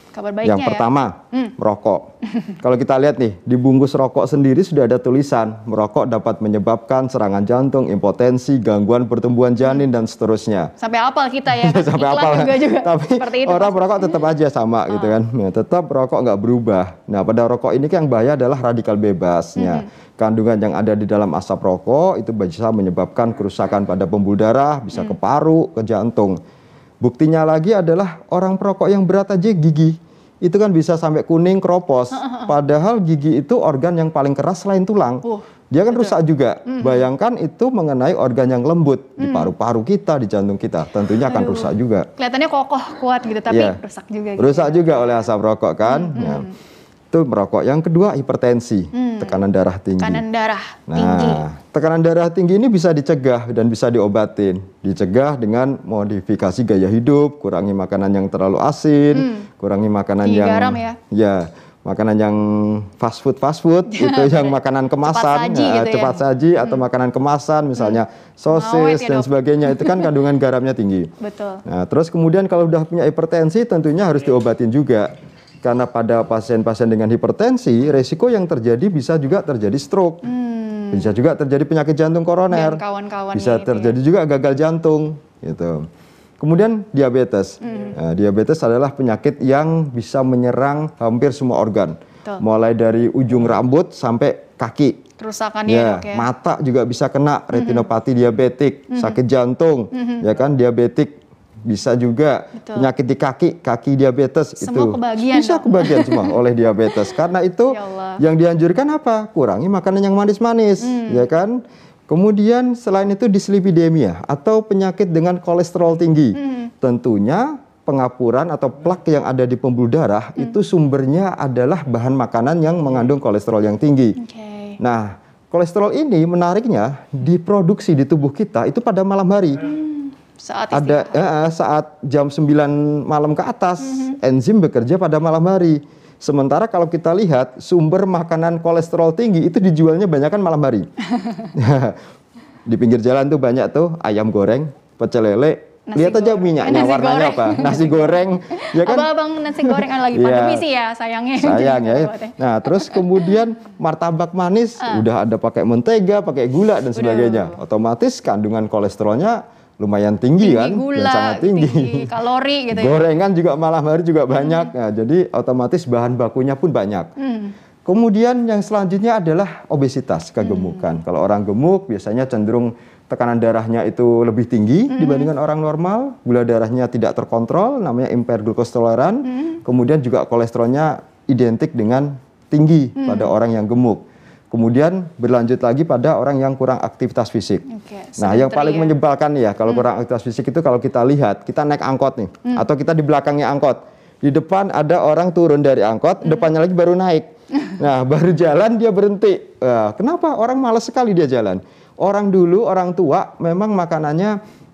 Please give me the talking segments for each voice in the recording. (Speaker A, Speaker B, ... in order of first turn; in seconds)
Speaker A: 0.1-1.5, 10.8-14.2, 14.9-15.2, 19.6-19.9, 32.1-32.5, 35.2-37.0, 39.2-39.5, 41.3-45.3, 45.9-46.5, 48.9-49.4, 50.0-51.4, 59.1-59.5, 60.2-61.0, 63.9-64.5, 65.0-66.8, 67.8-70.1, 71.2-71.6, 80.2-81.1, 82.5-84.0, 87.6-88.0, 95.2-96.2, 97.5-97.8, 98.9-99.2, 99.9-100.2, 102.5-102.9, 104.6-106.3, 107.7-108.2, 110.8-111.3, 116.3-116.7, 124.2-124.8, 129.7-131.3, 133.8-134.2, 141.1-141.5, 145.9-153.3, 156.9-157.6, 160.4-163.0, 164.3-164.7, 167.2-167.5, 170.4-170.9, 174.9-175.3, 179.2-179.6, 183.0-183.3, 187.7-188.9
Speaker B: 0.4-2.1, 2.6-10.7, 11.5-26.4, 27.0-42.1, 43.5-43.8, 44.4-46.5, 47.1-50.2, 50.9-71.1, 71.6-80.2, 80.9-82.8, 83.3-85.9, 86.4-95.0, 95.7-124.2, 124.8-129.6, 130.7-140.9, 141.5-142.0, 142.7-150.6, 151.4-162.1, 162.7-167.1, 167.8-187.6, 188.2-204.4